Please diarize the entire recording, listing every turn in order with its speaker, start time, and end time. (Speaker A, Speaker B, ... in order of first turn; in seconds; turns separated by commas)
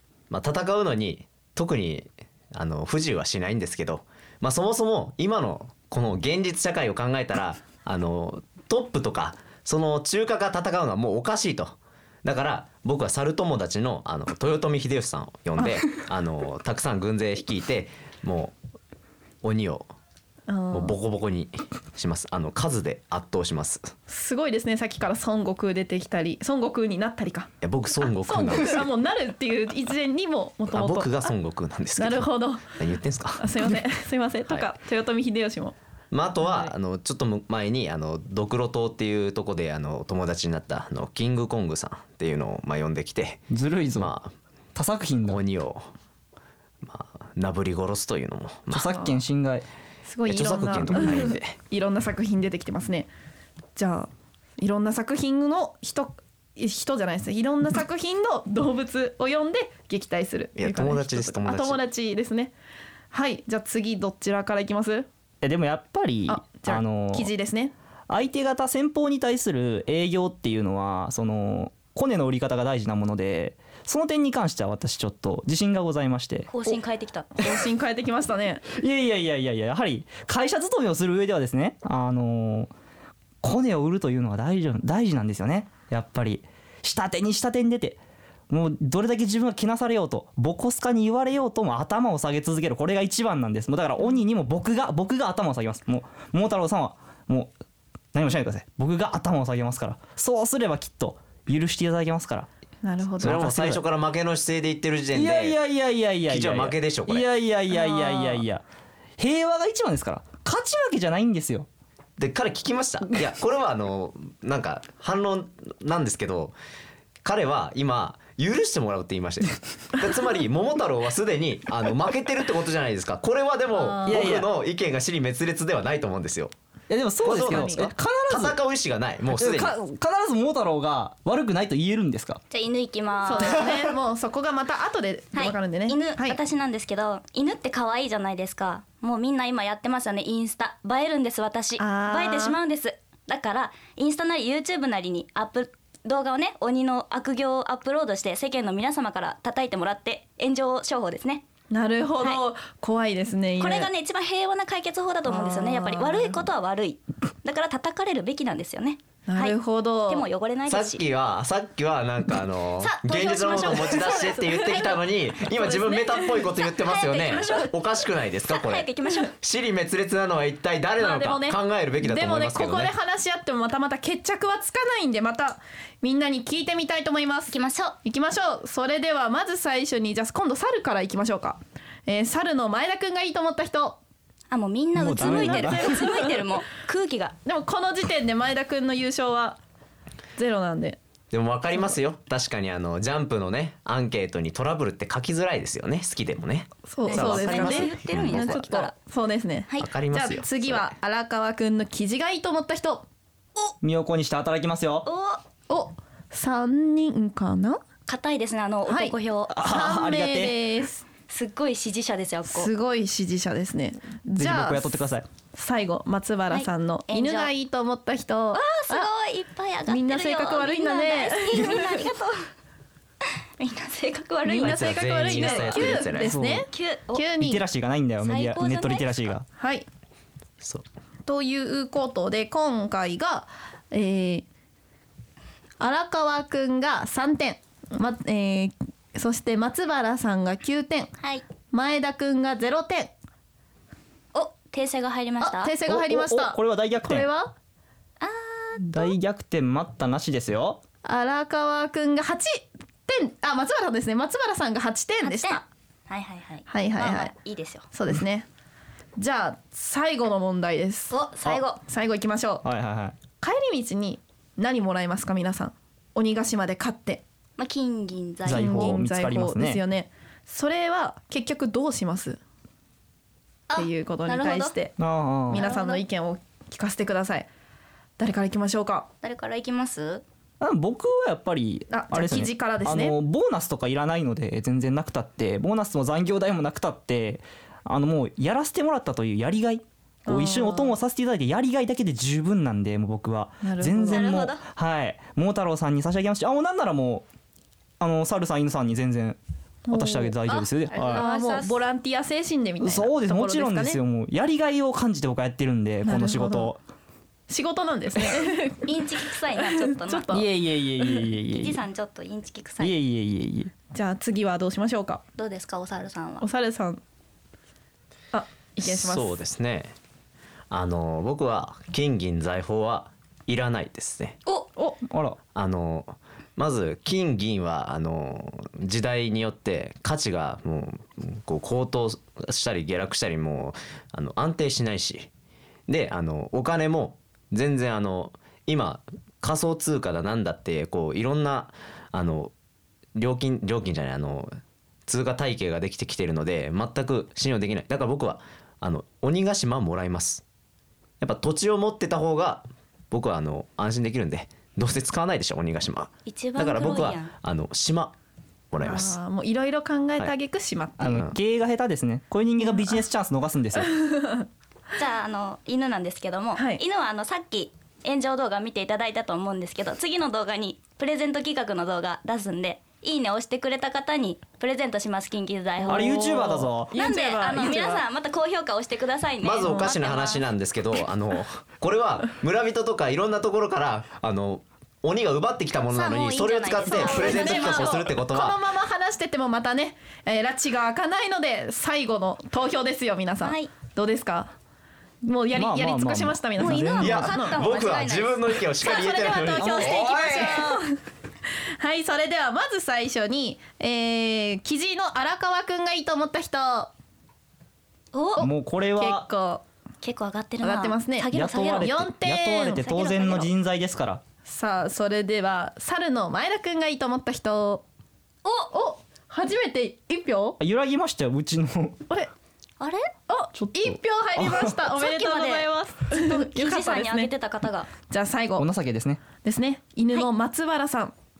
Speaker A: 0.3-18.5, Speaker A: 19.4-19.9, Speaker B: 20.5-20.9, Speaker A: 20.7-23.9, Speaker B: 24.1-27.5, Speaker A: 27.6-28.9, Speaker B: 28.0-31.3, Speaker A: 30.7-33.5, Speaker B: 32.0-32.7, Speaker B: 33.4-35.8, Speaker A: 36.1-44.3, Speaker B: 36.4-36.7, Speaker C: 43.5-44.1, Speaker C: 44.7-45.4, Speaker A: 45.3-45.9, Speaker A: 46.8-49.0, Speaker C: 48.7-49.6, Speaker B: 50.0-53.1, Speaker A: 50.2-51.5, Speaker B: 53.8-62.5, Speaker A: 60.6-61.8, Speaker B: 63.1-65.1, Speaker C: 65.4-67.3, Speaker B: 66.3-67.7, Speaker C: 68.1-76.5, Speaker D: 76.5-77.6, Speaker B: 77.4-78.6, Speaker C: 78.7-82.7, Speaker C: 83.4-97.5, Speaker C: 98.1-102.5, Speaker B: 102.8-103.5, Speaker C: 103.2-103.8, Speaker A: 103.2-105.6, Speaker C: 105.1-108.6, Speaker A: 106.2-107.3, Speaker B: 107.7-108.4, Speaker C: 109.2-111.7, Speaker A: 112.2-116.5, Speaker A: 117.2-126.5, Speaker B: 123.7-124.2, Speaker C: 124.0-124.5, Speaker C: 126.9-128.6, Speaker A: 127.2-129.7, Speaker B: 127.2-127.9, Speaker C: 129.3-132.4, Speaker D: 132.5-133.8, Speaker B: 133.2-136.4, Speaker D: 135.3-151.4, Speaker B: 141.8-142.6, Speaker B: 151.7-153.9, Speaker D: 153.6-159.6, Speaker B: 155.3-156.4, Speaker B: 159.3-160.2, Speaker D: 160.1-161.0, Speaker A: 160.7-172.9, Speaker D: 162.8-165.0, Speaker B: 163.5-164.8, Speaker D: 165.5-167.8, Speaker B: 165.8-166.3, Speaker D: 168.4-169.3, Speaker B: 171.0-184.0, Speaker D: 177.5-178.0, Speaker D: 184.5-187.3, Speaker C: 184.9-186.1, Speaker B: 185.2-186.3, Speaker B: 187.4-189.6, Speaker B: 190.3-191.0, Speaker A: 191.3-198.8, Speaker B: 196.9-203.1, Speaker D: 197.0-198.9, Speaker A: 199.8-200.9, Speaker C: 203.8-205.1, Speaker D: 205.1-205.4, Speaker B: 205.7-207.8, Speaker D: 208.1-209.5, Speaker B: 208.8-211.0, Speaker C: 209.5-210.6, Speaker D: 211.3-212.7, Speaker B: 212.4-219.1, Speaker C: 214.3-215.2, Speaker D: 216.5-217.5, Speaker D: 218.5-222.5, Speaker B: 219.9-222.0, Speaker D: 223.6-226.1, Speaker B: 224.4-227.6, Speaker A: 224.6-226.4, Speaker C: 226.2-226.7, Speaker D: 226.7-227.2, Speaker C: 227.4-229.4, Speaker D: 228.2-229.3, Speaker B: 229.6-229.8, Speaker B: 231.2-234.4, Speaker B: 235.8-241.1, Speaker B: 241.7-243.1, Speaker D: 244.3-245.7, Speaker B: 245.4-247.5, Speaker C: 245.9-247.3, Speaker D: 248.2-249.1, Speaker C: 248.8-250.8, Speaker B: 251.0-255.6, Speaker D: 255.2-257.9, Speaker B: 256.7-257.3, Speaker B: 257.9-258.5, Speaker B: 259.2-261.1, Speaker D: 261.1-261.8, Speaker B: 261.8-262.6, Speaker C: 262.6-263.1, Speaker B: 263.4-267.2, Speaker D: 267.6-269.0, Speaker C: 268.4-269.8, Speaker B: 268.5-272.4, Speaker D: 273.7-274.7, Speaker B: 273.7-274.9, Speaker C: 275.0-275.6, Speaker B: 275.5-277.5, Speaker D: 275.5-276.0, Speaker B: 278.2-279.1, Speaker D: 279.2-280.2, Speaker C: 280.6-297.2, Speaker B: 281.9-283.1, Speaker B: 290.2-290.9, Speaker B: 293.6-294.3, Speaker D: 294.1-294.6, Speaker C: 298.0-299.4, Speaker B: 299.9-304.0, Speaker C: 299.9-301.2, Speaker D: 300.9-301.8, Speaker C: 302.8-306.8, Speaker B: 306.0-306.7, Speaker B: 307.5-309.0, Speaker D: 308.8-310.4, Speaker B: 309.6-310.5, Speaker C: 310.3-311.8, Speaker D: 311.5-312.9, Speaker C: 312.8-313.7, Speaker B: 313.9-315.2, Speaker D: 315.4-316.4, Speaker B: 316.4-317.0, Speaker B: 318.3-319.3, Speaker A: 318.8-319.9, Speaker A: 320.7-324.4, Speaker C: 325.1-325.4, Speaker A: 325.5-335.3, Speaker A: 335.9-342.5, Speaker A: 343.1-350.4, Speaker A: 351.2-358.1, Speaker D: 356.2-357.3, Speaker A: 358.7-359.1, Speaker B: 358.8-361.2, Speaker C: 361.0-364.0, Speaker A: 361.0-361.4, Speaker B: 362.7-363.0, Speaker B: 364.0-364.4, Speaker D: 364.9-380.4, Speaker B: 366.6-366.8, Speaker B: 375.8-378.0, Speaker C: 375.9-376.9, Speaker A: 379.4-388.6, Speaker B: 379.6-380.0, Speaker D: 385.9-388.1, Speaker B: 386.8-394.5, Speaker D: 393.4-393.7, Speaker B: 395.2-397.6, Speaker C: 395.5-397.3, Speaker D: 396.6-398.9, Speaker A: 397.0-400.4, Speaker B: 398.8-401.0, Speaker C: 399.5-400.8, Speaker D: 400.2-400.5, Speaker B: 401.8-406.9, Speaker D: 408.1-408.5, Speaker C: 408.4-409.2, Speaker B: 409.0-409.6, Speaker D: 410.0-412.0, Speaker B: 410.6-412.8, Speaker C: 411.3-414.2, Speaker D: 412.7-413.5, Speaker B: 414.4-417.8, Speaker D: 418.4-418.7, Speaker B: 418.7-420.6, Speaker C: 420.6-422.0, Speaker D: 422.8-423.1, Speaker B: 423.3-427.3, Speaker C: 423.5-424.7, Speaker D: 424.9-427.9, Speaker B: 428.1-428.7, Speaker C: 428.6-429.2, Speaker B: 429.4-431.1